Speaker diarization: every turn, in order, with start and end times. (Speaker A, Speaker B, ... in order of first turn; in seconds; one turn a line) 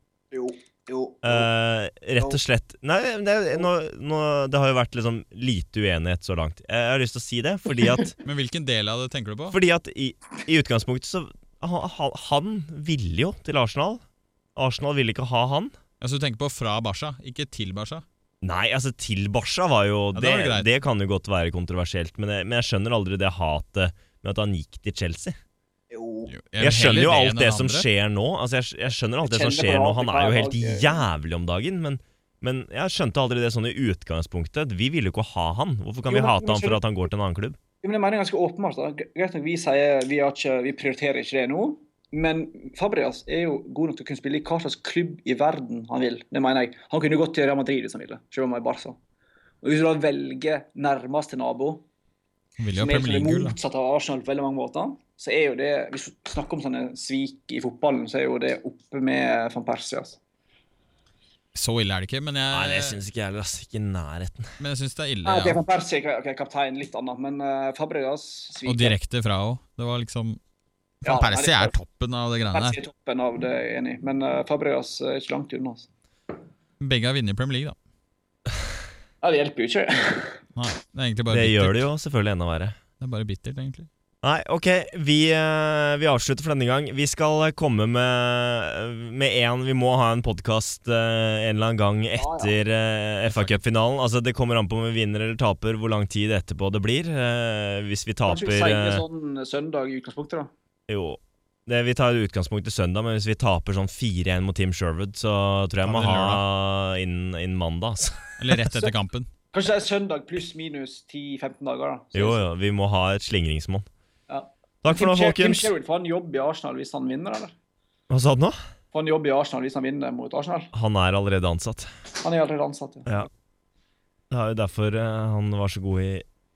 Speaker A: 0.3-1.5
Speaker B: 1.2-8.2
Speaker C: 8.2-9.6
Speaker B: 9.5-14.0
Speaker B: 14.6-15.7
Speaker C: 16.0-18.0
Speaker B: 18.4-25.4
Speaker C: 20.1-20.7
Speaker A: 25.9-26.3
Speaker C: 26.3-27.9
Speaker B: 26.6-37.6
Speaker A: 29.2-31.0
Speaker A: 36.0-36.8
Speaker A: 37.8-49.0
Speaker A: 49.6-51.8
Speaker C: 52.6-53.5
Speaker A: 52.8-60.2
Speaker C: 61.5-63.0
Speaker B: 62.5-64.6
Speaker C: 64.6-65.6
Speaker A: 65.2-69.0
Speaker C: 68.6-70.4
Speaker C: 71.0-72.8
Speaker A: 71.0-71.7
Speaker A: 72.5-75.9
Speaker C: 76.8-77.8
Speaker A: 79.2-80.4
Speaker C: 80.5-81.8
Speaker B: 81.3-82.8
Speaker C: 83.0-83.9
Speaker B: 84.2-99.0
Speaker A: 92.2-92.5
Speaker C: 93.2-93.6
Speaker A: 98.2-100.5
Speaker B: 100.9-108.4
Speaker C: 105.8-106.4
Speaker C: 108.4-109.3
Speaker A: 109.5-112.4
Speaker B: 112.1-113.9
Speaker A: 114.3-117.5
Speaker B: 114.8-115.7
Speaker B: 118.1-118.6
Speaker A: 118.9-120.7
Speaker B: 120.7-121.9
Speaker A: 122.2-123.3
Speaker B: 124.3-126.2